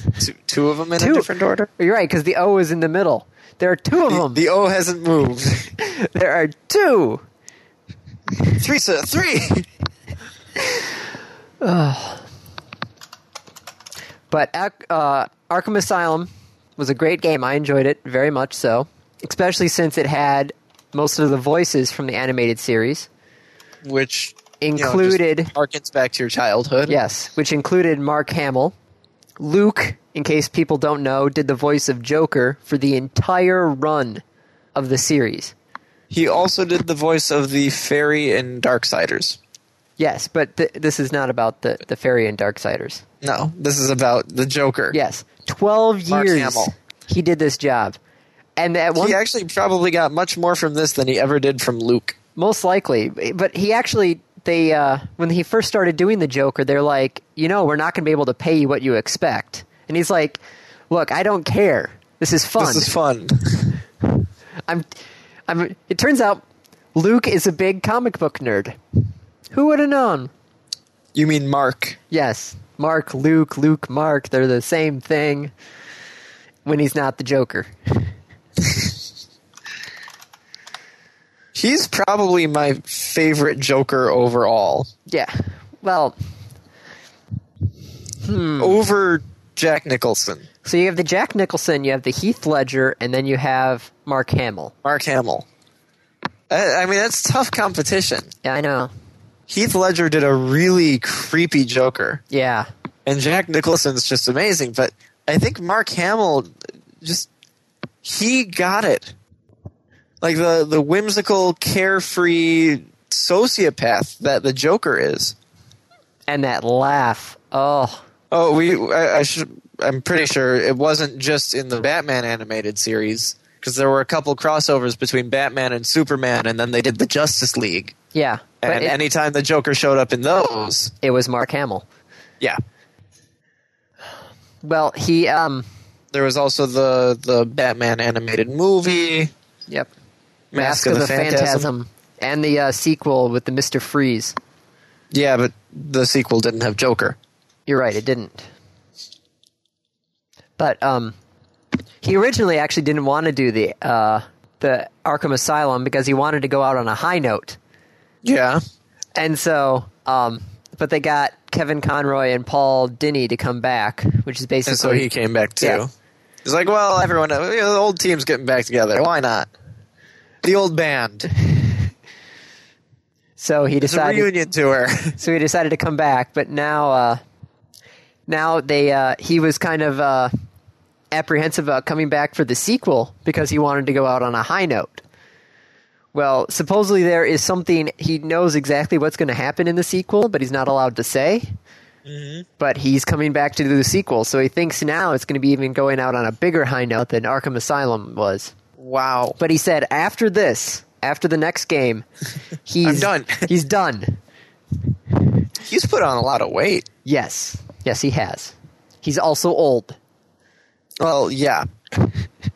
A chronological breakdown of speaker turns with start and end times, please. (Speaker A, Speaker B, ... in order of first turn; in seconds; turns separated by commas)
Speaker A: 0.2-1.7, Speaker B: 1.0-4.4, Speaker A: 4.1-5.7, Speaker B: 5.8-7.2, Speaker A: 8.6-9.7, Speaker B: 11.6-12.2, Speaker B: 14.3-23.1, Speaker A: 23.8-27.0, Speaker B: 24.6-25.5, Speaker B: 26.9-28.7, Speaker B: 29.4-34.2, Speaker B: 34.7-35.5, Speaker A: 36.1-39.4, Speaker B: 40.0-43.0, Speaker A: 43.2-45.0, Speaker B: 44.9-48.0, Speaker A: 46.1-46.7, Speaker B: 48.6-49.2, Speaker A: 49.0-52.1, Speaker B: 52.4-60.4, Speaker B: 60.9-62.9, Speaker A: 62.6-63.8, Speaker B: 65.5-66.4, Speaker B: 66.9-68.8, Speaker B: 69.5-70.3, Speaker A: 71.1-72.0, Speaker B: 72.1-75.5, Speaker B: 76.6-78.1, Speaker A: 81.5-84.9, Speaker B: 85.1-86.1, Speaker B: 88.2-88.8, Speaker A: 88.6-90.5, Speaker B: 90.6-94.7, Speaker A: 94.8-95.5, Speaker A: 96.5-98.3, Speaker B: 98.4-98.9, Speaker A: 99.5-102.2, Speaker B: 102.3-102.7, Speaker A: 103.0-107.3, Speaker A: 108.0-109.1, Speaker A: 110.2-115.3, Speaker B: 116.3-118.0, Speaker A: 118.3-127.9, Speaker B: 128.1-129.0, Speaker A: 128.6-130.9, Speaker B: 131.0-131.8, Speaker B: 134.6-135.7, Speaker A: 136.1-139.3, Speaker A: 140.5-141.7, Speaker B: 140.6-144.3, Speaker A: 145.1-147.2, Speaker B: 147.7-148.5, Speaker B: 150.6-151.1, Speaker B: 152.0-157.6, Speaker A: 158.2-158.6, Speaker B: 159.2-165.1, Speaker A: 164.7-165.9, Speaker A: 166.4-169.5, Speaker A: 170.4-171.3, Speaker B: 173.4-174.3, Speaker A: 173.8-175.2, Speaker B: 175.2-177.2, Speaker B: 178.3-180.3, Speaker B: 181.1-185.0, Speaker B: 186.1-191.5, Speaker A: 192.1-192.4, Speaker B: 192.6-198.5, Speaker A: 198.8-199.4, Speaker B: 199.4-202.1, Speaker B: 202.6-204.2, Speaker A: 202.8-203.5, Speaker A: 205.6-206.8, Speaker B: 207.0-210.0, Speaker A: 211.0-212.0